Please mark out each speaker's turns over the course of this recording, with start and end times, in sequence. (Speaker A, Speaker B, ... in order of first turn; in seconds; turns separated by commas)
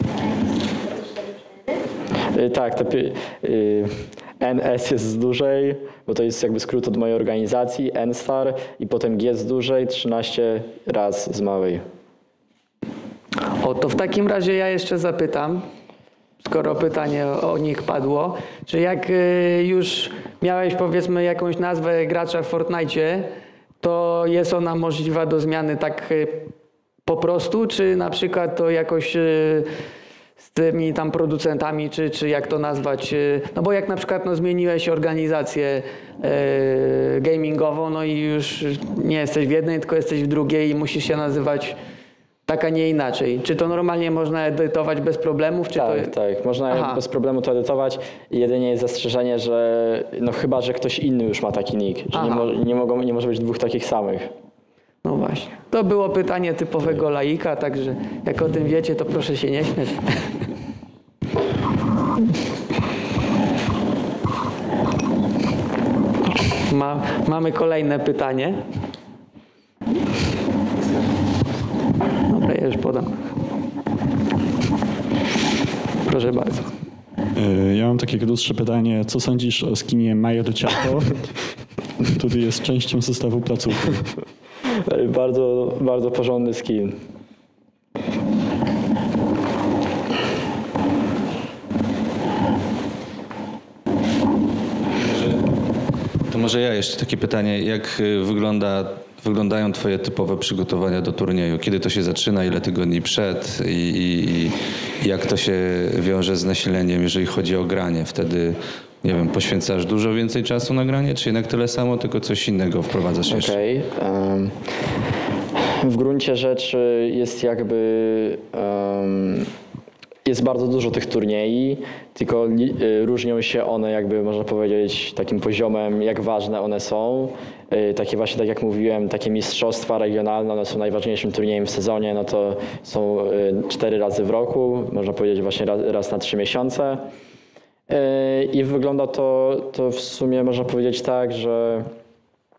Speaker A: 2.3-11.8, Speaker B: 13.6-15.6, Speaker B: 16.4-26.5, Speaker B: 27.1-29.7, Speaker B: 30.4-41.8, Speaker B: 42.5-46.1, Speaker A: 45.7-54.3, Speaker B: 46.7-47.0, Speaker B: 52.1-52.5, Speaker B: 55.0-60.0, Speaker B: 66.7-68.6, Speaker B: 72.3-73.1, Speaker B: 76.0-76.7, Speaker C: 77.4-81.3, Speaker C: 82.1-84.1, Speaker A: 84.8-87.0, Speaker D: 96.3-113.5, Speaker A: 113.3-114.7, Speaker A: 115.5-119.5, Speaker A: 120.2-137.1, Speaker A: 137.9-141.9